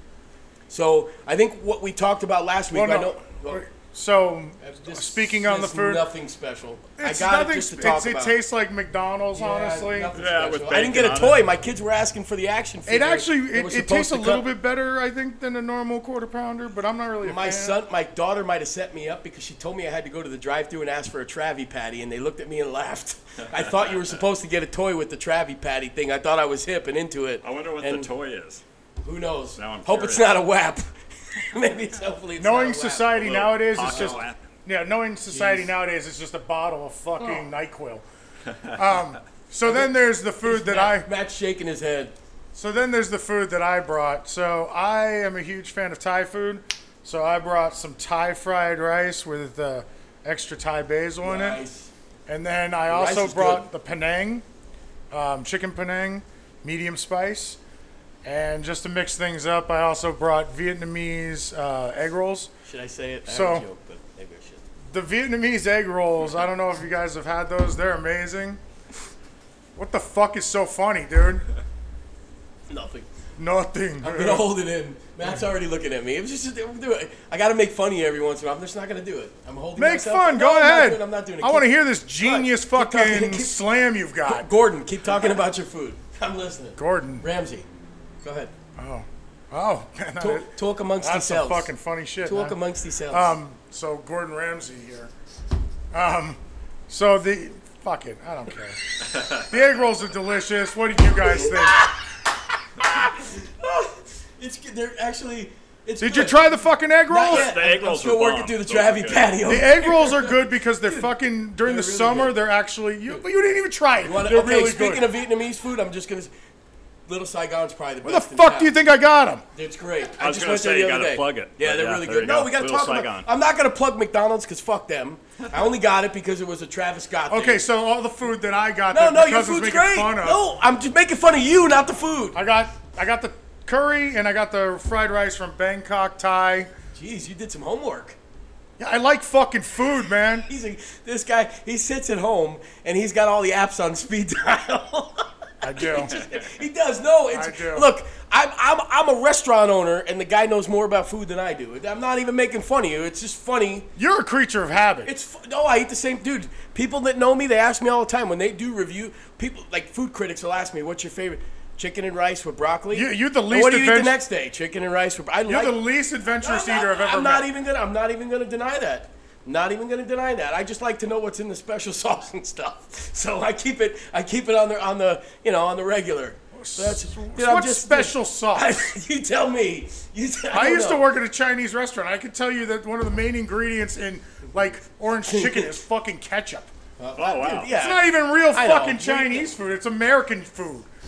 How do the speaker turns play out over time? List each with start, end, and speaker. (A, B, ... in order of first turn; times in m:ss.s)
0:00.7-0:03.6 A
0:02.7-0:06.1 B
0:04.6-0:08.4 A
0:07.0-0:10.1 B
0:09.3-0:14.4 A
0:10.1-0:11.6 C
0:12.9-0:17.8 B
0:17.2-0:28.1 A
0:23.7-0:24.0 C
0:27.4-0:28.6 C
0:29.0-0:34.2 A
0:29.6-0:30.4 C
0:32.4-0:38.0 B
0:33.2-0:34.5 C
0:35.3-0:35.6 A
0:38.7-0:41.1 B
0:39.6-0:42.1 A
0:42.5-0:51.6 B
0:51.2-0:51.9 A
0:52.3-0:54.4 B
0:52.9-0:53.6 A
0:55.1-0:57.6 B
0:58.2-1:02.5 B
1:02.6-1:04.6 A
1:03.2-1:03.6 B
1:04.9-1:08.6 B
1:09.8-1:11.4 B
1:12.7-1:13.1 A
1:13.4-1:14.4 B
1:14.0-1:23.6 A
1:19.8-1:24.5 B
1:24.2-1:27.7 A
1:26.8-1:27.2 B
1:28.2-1:28.5 A
1:28.8-1:32.6 B
1:30.2-1:31.7 A
1:32.2-1:33.3 A
1:33.1-1:35.1 B
1:35.9-1:36.4 B
1:36.9-1:41.9 B
1:41.2-1:46.5 A
1:46.0-1:47.5 B
1:47.1-1:52.4 A
1:47.2-1:49.3 C
1:49.5-1:55.1 B
1:54.0-1:56.3 A
1:57.1-1:58.7 A
1:58.0-1:59.4 B
1:59.5-2:07.6 A
2:00.2-2:03.3 C
2:07.3-2:10.4 B
2:08.9-2:12.4 A
2:12.3-2:16.7 B
2:16.9-2:18.2 A
2:18.8-2:20.5 B
2:20.4-2:33.9 A
2:25.6-2:26.1 B
2:27.3-2:27.9 B
2:34.0-2:35.1 B
2:35.0-2:45.8 A
2:42.9-2:44.2 B
2:45.5-2:47.5 B
2:46.4-3:01.1 A
2:56.5-2:58.8 B
3:00.5-3:06.7 B
3:05.2-3:05.7 A
3:07.0-3:09.5 A
3:07.2-3:07.7 C
3:07.7-3:10.9 B